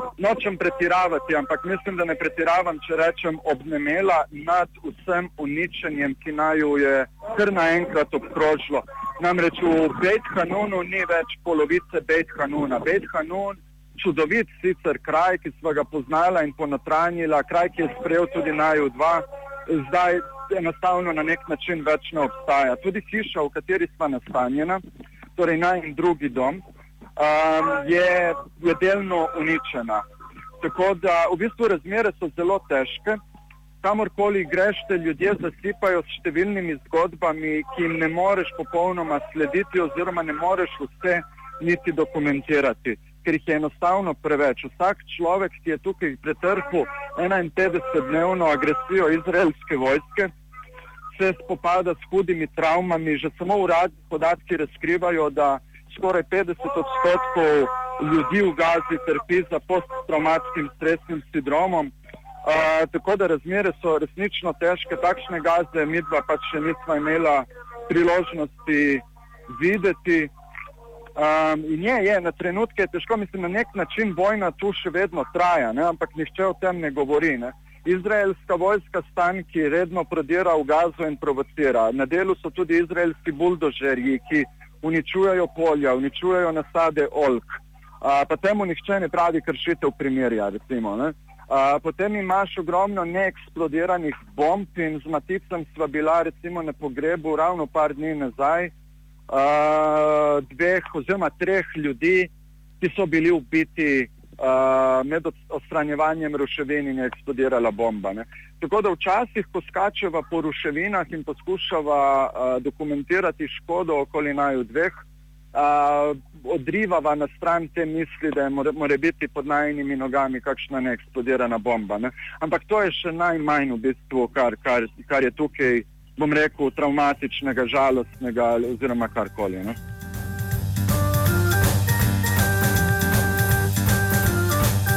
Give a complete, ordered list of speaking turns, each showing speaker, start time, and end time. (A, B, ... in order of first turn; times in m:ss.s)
0:00.2-0:24.8 A
0:25.4-0:26.6 A
0:27.2-0:30.0 A
0:30.6-0:33.2 A
0:33.8-0:50.3 A
0:51.1-1:01.9 A
1:02.4-1:10.3 A
1:11.1-1:38.7 A
1:39.3-2:09.8 A